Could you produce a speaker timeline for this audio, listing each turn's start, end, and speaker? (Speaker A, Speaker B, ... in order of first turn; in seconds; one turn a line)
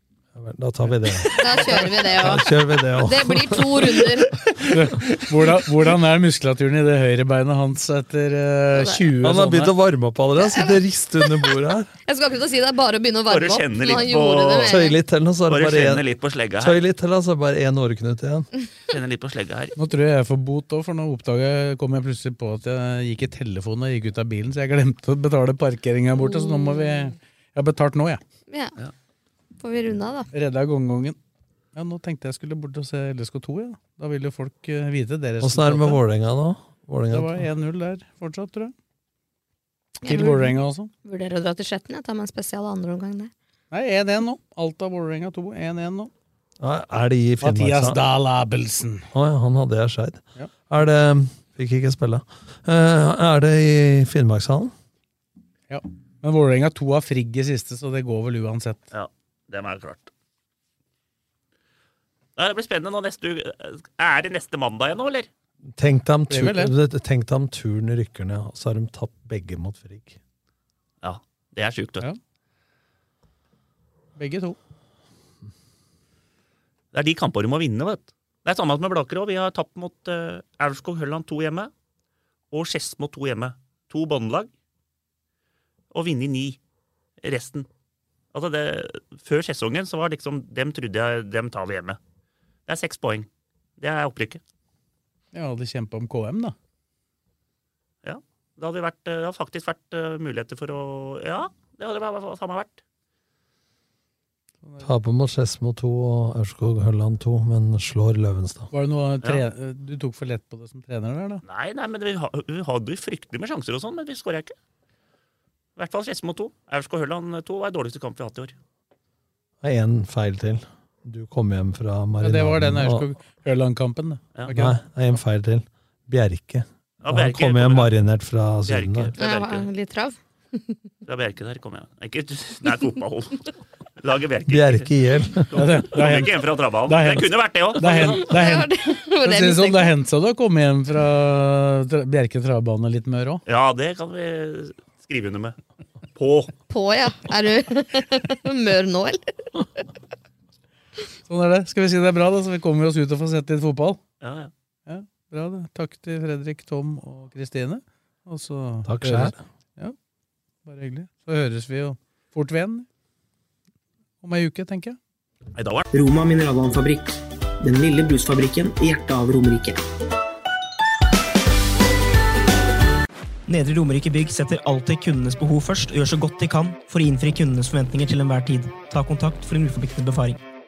Speaker A: 0.3-4.2
Speaker B: 1.4-4.5
Speaker C: 4.7-9.7
Speaker B: 8.7-9.0
Speaker A: 9.2-11.9
Speaker B: 10.4-10.8
Speaker B: 12.1-15.0
Speaker D: 13.3-14.8
Speaker A: 14.7-16.1
Speaker D: 15.5-16.8
Speaker A: 16.6-18.5
Speaker D: 18.9-19.8
Speaker C: 19.8-28.2
Speaker B: 28.5-28.8
Speaker B: 29.6-30.3
Speaker C: 30.3-31.2
Speaker C: 31.7-36.0
Speaker A: 35.4-37.5
Speaker C: 37.1-38.7
Speaker B: 40.0-43.3
Speaker C: 40.0-40.9
Speaker C: 43.7-46.1
Speaker A: 46.6-48.0
Speaker C: 47.4-49.1
Speaker A: 49.1-54.7
Speaker C: 55.7-58.9
Speaker D: 58.9-60.1
Speaker D: 62.4-65.3
Speaker A: 65.8-70.2
Speaker C: 66.3-66.7
Speaker D: 71.0-72.1
Speaker C: 74.2-74.6
Speaker D: 76.9-81.7
Speaker D: 82.5-84.5
Speaker D: 85.9-86.6
Speaker D: 87.2-87.7
Speaker D: 88.3-92.0
Speaker D: 92.7-94.4
Speaker C: 95.3-96.6
Speaker D: 98.0-102.8
Speaker C: 104.6-104.9
Speaker A: 104.8-108.7
Speaker C: 108.7-111.4
Speaker D: 111.5-114.5
Speaker D: 115.8-118.5
Speaker A: 119.6-123.1
Speaker C: 122.2-124.8
Speaker A: 124.5-129.1
Speaker D: 127.0-127.9
Speaker D: 128.7-129.7
Speaker B: 129.2-130.2
Speaker D: 131.1-134.9
Speaker A: 134.5-135.5
Speaker D: 135.5-138.3
Speaker C: 135.5-143.4
Speaker B: 138.2-139.9
Speaker D: 143.5-145.6
Speaker D: 146.2-146.5
Speaker B: 146.7-149.7
Speaker C: 151.3-154.0
Speaker D: 154.2-154.5
Speaker C: 154.9-159.9
Speaker A: 158.8-159.4
Speaker C: 160.7-162.9
Speaker C: 164.2-165.0
Speaker D: 165.6-165.9
Speaker E: 165.9-169.8
Speaker F: 173.5-180.4